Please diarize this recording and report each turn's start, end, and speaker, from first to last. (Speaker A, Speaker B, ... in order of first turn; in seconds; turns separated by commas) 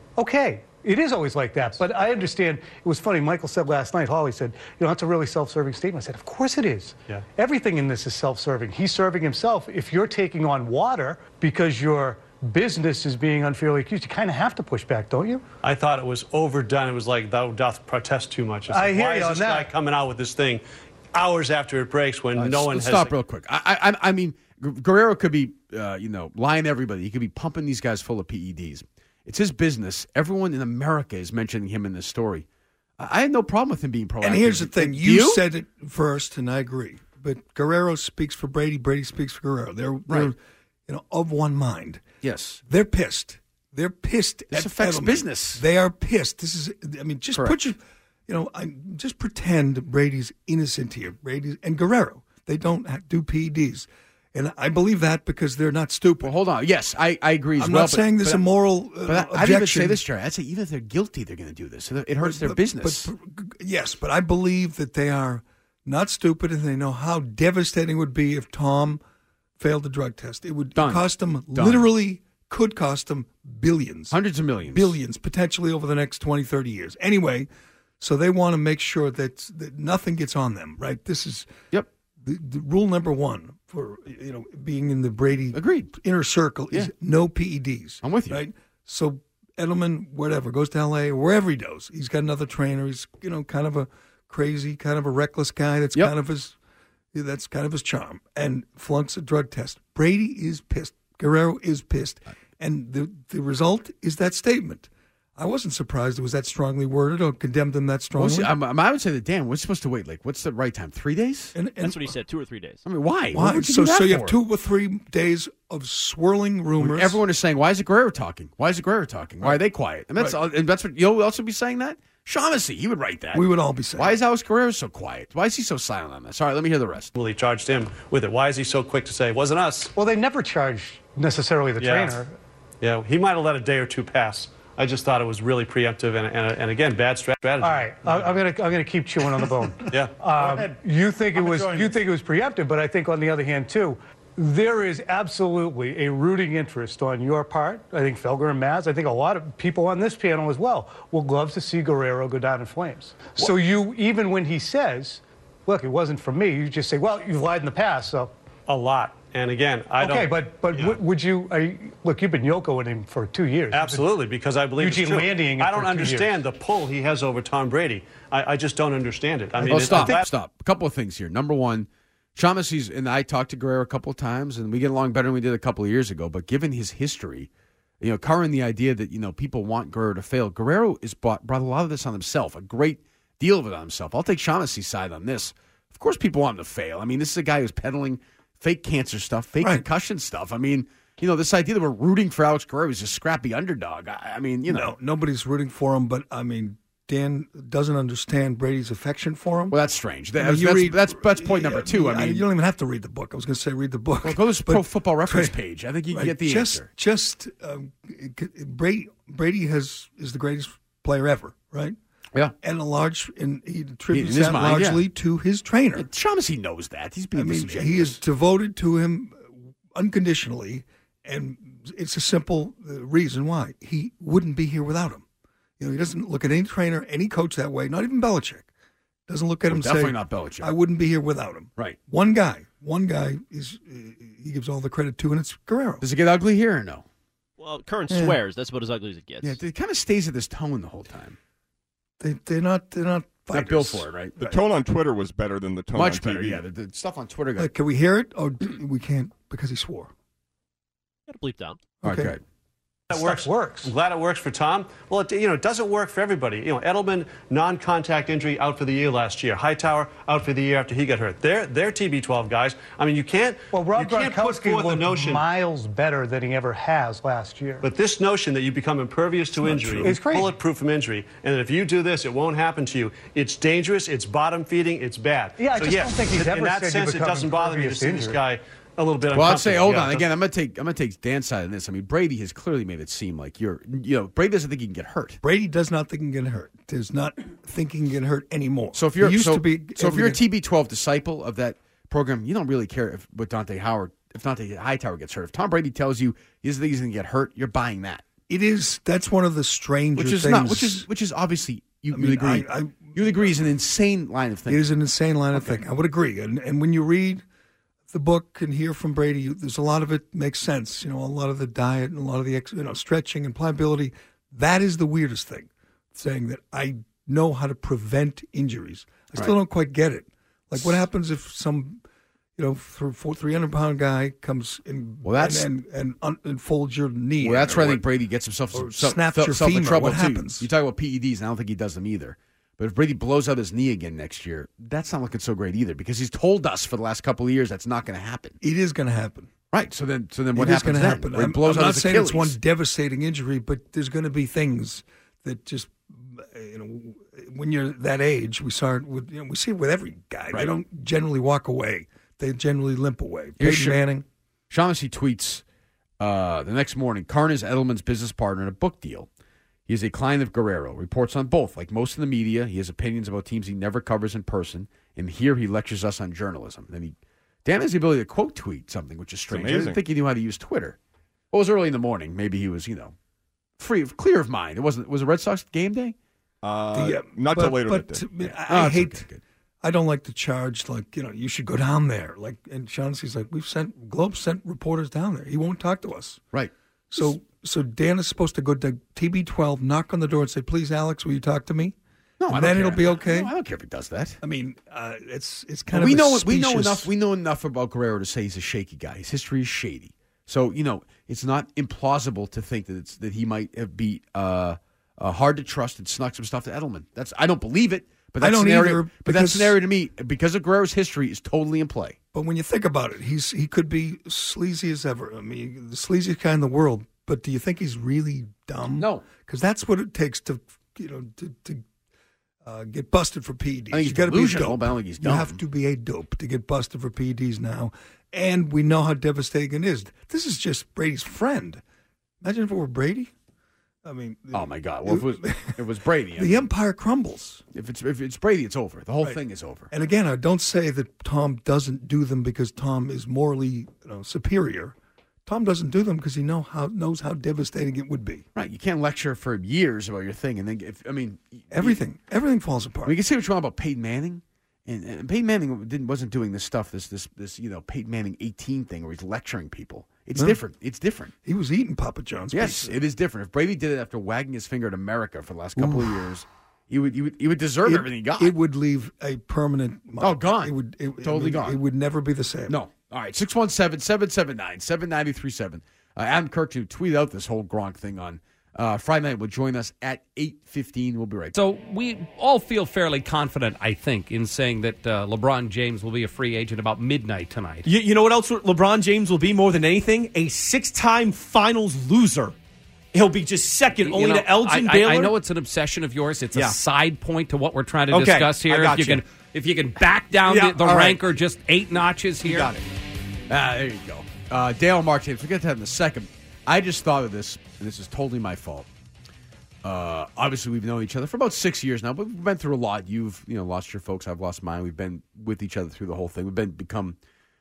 Speaker A: 0.2-15.4, Speaker B: 15.6-23.1, Speaker A: 18.7-19.7, Speaker C: 22.3-32.5, Speaker C: 33.0-35.5, Speaker D: 34.2-40.4, Speaker D: 40.9-42.0, Speaker C: 42.2-42.6, Speaker D: 42.7-56.3, Speaker C: 44.5-45.6, Speaker C: 47.3-47.6, Speaker C: 56.2-58.5, Speaker D: 57.6-60.0, Speaker C: 59.0-63.1, Speaker D: 62.2-69.0, Speaker D: 69.6-77.5, Speaker C: 70.8-71.9, Speaker C: 74.1-75.0, Speaker D: 78.0-81.5, Speaker D: 82.2-96.6, Speaker C: 85.5-85.9, Speaker C: 88.0-88.4, Speaker D: 97.1-108.5, Speaker C: 108.2-111.5, Speaker D: 111.5-112.1, Speaker E: 111.8-112.8, Speaker C: 112.8-114.4, Speaker D: 113.3-117.2, Speaker C: 116.8-127.1, Speaker D: 123.3-124.2, Speaker B: 127.1-129.9, Speaker A: 129.9-132.4, Speaker B: 131.8-132.2, Speaker B: 132.8-138.4, Speaker A: 137.6-158.3, Speaker B: 139.9-140.8, Speaker B: 141.4-141.9, Speaker B: 158.7-161.0, Speaker A: 160.0-164.3, Speaker B: 163.7-170.3, Speaker A: 164.8-166.4, Speaker C: 169.6-177.5, Speaker C: 178.0-194.9, Speaker D: 194.7-199.8, Speaker C: 199.7-202.4, Speaker D: 200.4-205.5, Speaker C: 204.2-206.9, Speaker D: 206.1-211.9, Speaker D: 212.6-216.1, Speaker C: 214.1-215.1, Speaker C: 215.9-218.2, Speaker D: 217.3-225.2, Speaker D: 225.8-228.7, Speaker D: 229.3-236.0, Speaker C: 229.7-230.8, Speaker C: 236.0-237.0, Speaker E: 237.6-239.6, Speaker D: 238.1-238.4, Speaker C: 239.4-241.4, Speaker D: 242.2-244.6, Speaker C: 243.5-244.3, Speaker F: 244.4-246.6, Speaker C: 245.9-247.7, Speaker D: 247.6-250.1, Speaker E: 251.3-251.8, Speaker D: 252.0-252.4, Speaker C: 252.0-252.4, Speaker A: 253.1-253.9, Speaker B: 253.1-265.4, Speaker A: 263.7-267.9, Speaker B: 267.8-280.3, Speaker A: 269.6-270.6, Speaker D: 269.7-270.0, Speaker A: 275.6-278.4, Speaker C: 279.3-285.4, Speaker D: 285.4-290.4, Speaker C: 288.9-298.2, Speaker D: 298.5-301.1, Speaker C: 300.1-304.8, Speaker D: 302.1-303.5, Speaker D: 304.7-307.4, Speaker C: 305.6-305.8, Speaker D: 308.1-322.0, Speaker D: 322.6-328.0, Speaker C: 325.2-325.7, Speaker C: 327.4-338.6, Speaker D: 328.7-330.7, Speaker D: 338.6-339.5, Speaker C: 339.7-342.6, Speaker D: 340.6-354.2, Speaker C: 353.6-354.0, Speaker C: 354.7-355.6, Speaker C: 356.2-359.3, Speaker C: 359.9-371.0, Speaker F: 369.5-370.0, Speaker C: 371.5-373.1, Speaker C: 373.8-376.1, Speaker F: 376.6-378.2, Speaker D: 376.9-379.2, Speaker C: 378.4-379.4, Speaker D: 379.8-386.4, Speaker C: 386.5-387.3, Speaker D: 387.1-391.9, Speaker C: 392.4-394.4, Speaker D: 392.5-393.5, Speaker D: 394.4-397.1, Speaker C: 395.9-412.2, Speaker D: 408.4-409.8, Speaker D: 412.3-421.8, Speaker C: 419.0-419.3, Speaker D: 422.6-431.8, Speaker C: 423.9-425.6, Speaker D: 432.4-433.3, Speaker D: 434.1-435.8, Speaker C: 434.5-436.7, Speaker D: 436.4-437.6, Speaker C: 437.7-439.9, Speaker D: 439.9-444.9, Speaker D: 445.4-448.4, Speaker C: 448.6-452.0, Speaker D: 451.7-453.1, Speaker C: 453.1-461.3, Speaker D: 461.4-463.0, Speaker C: 462.5-468.6, Speaker D: 465.8-466.1, Speaker D: 467.8-472.7, Speaker C: 470.2-471.8, Speaker C: 472.7-481.6, Speaker G: 481.5-487.8, Speaker H: 487.8-492.6, Speaker H: 493.1-495.4, Speaker G: 494.0-502.7, Speaker H: 496.5-496.8, Speaker H: 498.1-499.2, Speaker H: 500.4-501.4, Speaker H: 502.4-502.8, Speaker C: 503.5-508.9, Speaker C: 509.8-517.2